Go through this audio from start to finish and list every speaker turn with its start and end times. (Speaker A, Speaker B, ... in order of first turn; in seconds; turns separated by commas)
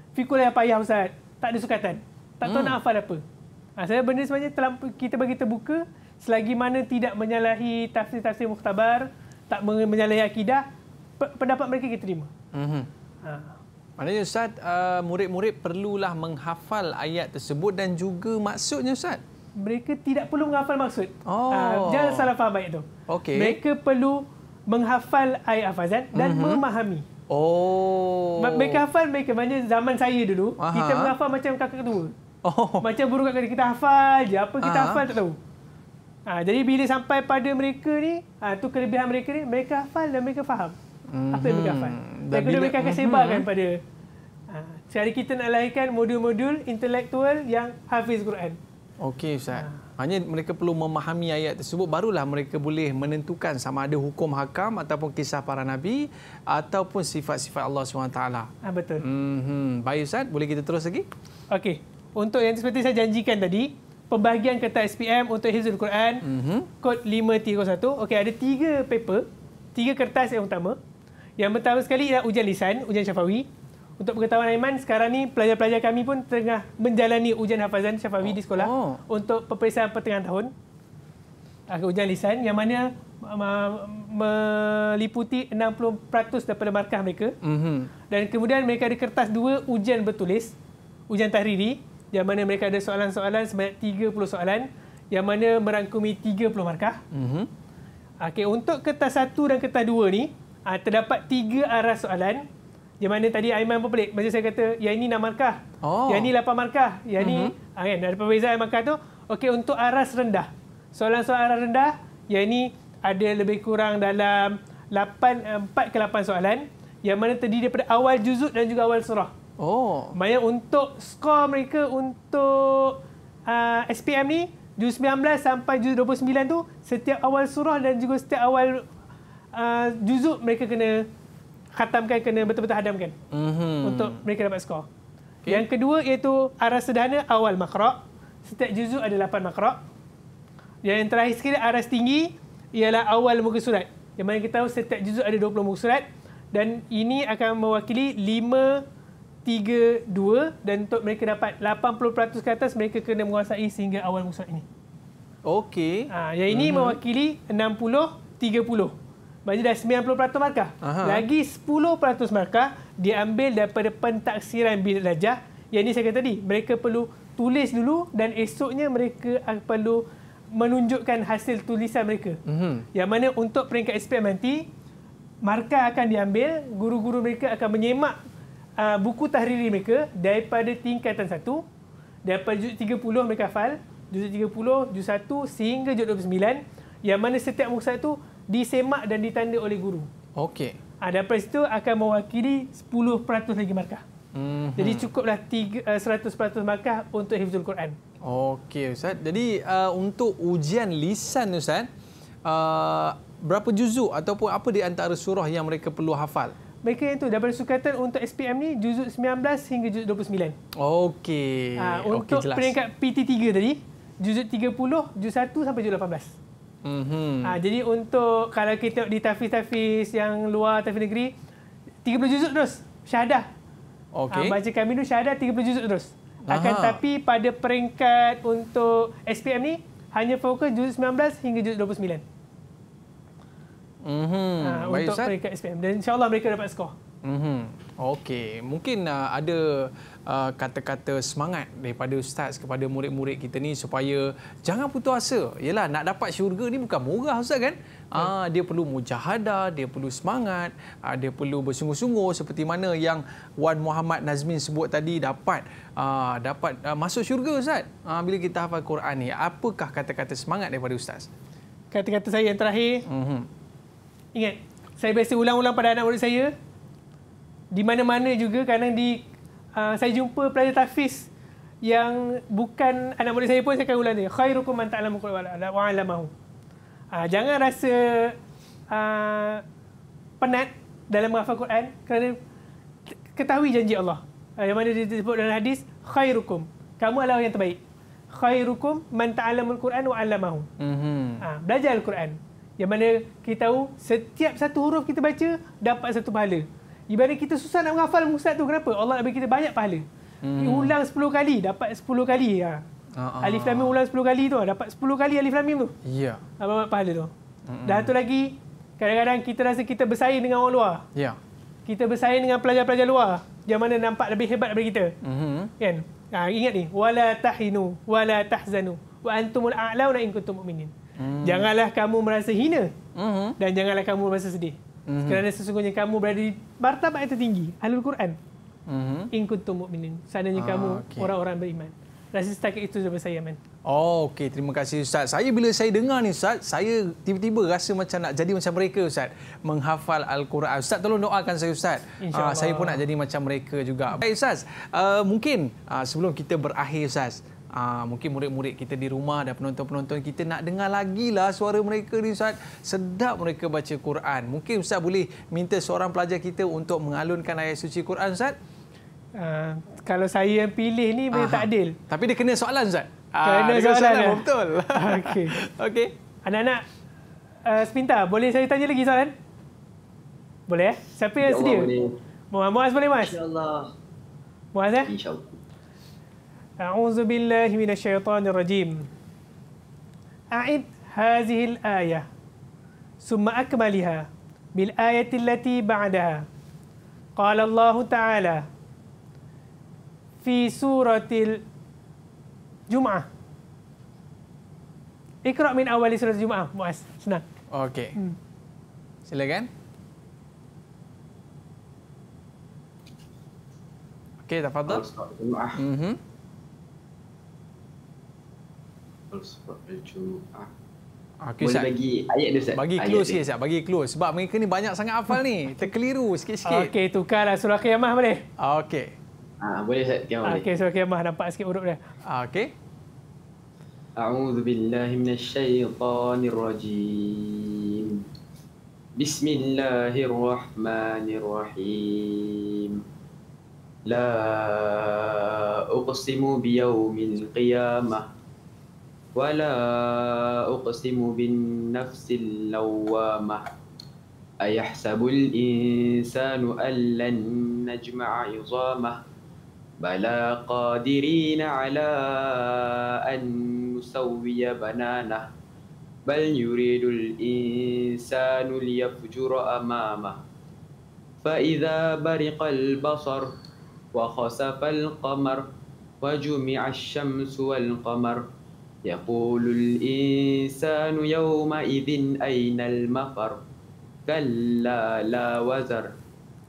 Speaker A: 0.1-3.2, Speaker B: 2.5-2.8, Speaker A: 3.8-10.6, Speaker A: 11.2-12.3, Speaker B: 12.5-12.9, Speaker A: 13.2-13.6, Speaker B: 14.0-19.2, Speaker A: 19.6-27.1, Speaker B: 21.3-22.3, Speaker B: 23.1-23.6, Speaker B: 26.1-26.6, Speaker B: 27.3-28.8, Speaker A: 28.4-32.1, Speaker B: 30.6-31.1, Speaker B: 32.4-32.9, Speaker A: 32.8-35.4, Speaker B: 34.6-35.1, Speaker A: 36.3-40.8, Speaker B: 41.1-43.5, Speaker A: 41.3-43.8, Speaker A: 44.5-48.6, Speaker B: 49.0-58.5, Speaker A: 58.6-59.0, Speaker B: 59.0-61.1, Speaker A: 61.5-66.2, Speaker B: 66.2-66.7, Speaker A: 66.8-70.8, Speaker A: 71.4-73.5, Speaker A: 74.0-80.5, Speaker B: 78.2-79.0, Speaker A: 81.7-87.3, Speaker B: 87.4-87.9, Speaker A: 88.1-90.5, Speaker A: 91.1-97.0, Speaker B: 97.1-97.5, Speaker A: 98.2-102.5, Speaker A: 103.0-119.3, Speaker B: 105.8-106.3, Speaker B: 107.2-107.5, Speaker B: 119.6-120.2, Speaker A: 120.2-128.9, Speaker A: 129.6-131.1, Speaker A: 131.8-133.2, Speaker B: 133.3-134.2, Speaker A: 133.8-134.9, Speaker A: 135.5-139.8, Speaker A: 140.8-148.8, Speaker A: 149.4-154.7, Speaker B: 155.5-157.0, Speaker A: 156.1-158.9, Speaker A: 159.5-170.0, Speaker B: 160.8-161.2, Speaker A: 170.5-172.4, Speaker B: 172.5-172.9, Speaker A: 172.9-174.7, Speaker A: 175.4-178.2, Speaker A: 178.8-181.6, Speaker A: 182.3-190.1, Speaker B: 190.4-190.8, Speaker A: 191.0-194.0, Speaker B: 194.3-195.1, Speaker A: 194.8-198.0, Speaker B: 198.2-201.9, Speaker B: 202.5-206.5, Speaker A: 206.8-210.6, Speaker B: 210.8-212.8, Speaker A: 211.8-216.4, Speaker B: 216.8-217.6, Speaker A: 217.4-221.3, Speaker A: 222.1-223.5, Speaker B: 224.1-224.6, Speaker A: 224.3-232.2, Speaker B: 226.5-227.0, Speaker B: 234.0-235.3, Speaker A: 234.6-236.9, Speaker B: 237.2-261.3, Speaker A: 261.9-263.0, Speaker B: 263.1-263.5, Speaker A: 264.4-266.5, Speaker A: 267.7-271.3, Speaker A: 271.9-276.3, Speaker A: 277.1-278.4, Speaker A: 278.9-279.6, Speaker A: 280.4-282.4, Speaker A: 283.3-287.8, Speaker A: 288.3-290.7, Speaker B: 290.8-291.4, Speaker A: 291.4-300.1, Speaker B: 300.4-300.9, Speaker A: 300.6-302.9, Speaker B: 303.2-304.0, Speaker A: 303.4-305.9, Speaker B: 306.1-306.4, Speaker A: 306.6-307.3, Speaker B: 307.7-308.1, Speaker A: 307.9-311.1, Speaker A: 311.9-315.1, Speaker B: 315.2-315.7, Speaker A: 315.8-320.9, Speaker B: 321.2-321.7, Speaker A: 321.4-322.9, Speaker B: 323.1-323.6, Speaker A: 323.6-328.4, Speaker B: 325.1-325.4, Speaker B: 328.9-329.3, Speaker A: 329.3-333.6, Speaker B: 330.6-331.3, Speaker B: 333.9-358.6, Speaker A: 342.2-343.0, Speaker A: 359.4-362.0, Speaker B: 361.3-366.1, Speaker A: 363.4-365.6, Speaker A: 366.4-366.8, Speaker A: 367.7-369.3, Speaker A: 370.7-371.9, Speaker C: 371.4-372.1, Speaker A: 372.5-373.4, Speaker C: 373.2-373.9, Speaker A: 374.8-375.1, Speaker C: 375.1-375.6, Speaker A: 376.8-379.1, Speaker A: 380.6-382.3, Speaker A: 383.2-386.5, Speaker A: 387.4-388.6, Speaker A: 390.4-391.6, Speaker A: 392.9-393.3, Speaker A: 395.5-397.4, Speaker B: 397.7-398.1, Speaker B: 399.3-399.7, Speaker B: 404.4-405.0, Speaker C: 404.9-405.8, Speaker B: 405.8-406.2, Speaker C: 409.3-410.7, Speaker B: 411.4-411.9, Speaker C: 411.6-413.4, Speaker B: 412.7-416.9, Speaker A: 416.7-418.4, Speaker B: 418.6-419.1, Speaker C: 419.6-420.7, Speaker A: 420.4-422.0, Speaker B: 422.3-422.7, Speaker C: 424.2-428.1, Speaker C: 429.2-433.0, Speaker C: 434.1-438.3, Speaker C: 439.4-443.7, Speaker C: 444.6-449.2, Speaker C: 450.0-455.5, Speaker C: 456.3-460.4, Speaker C: 461.4-463.5, Speaker C: 464.1-465.6, Speaker C: 466.2-468.4, Speaker C: 469.1-473.6, Speaker C: 474.3-476.1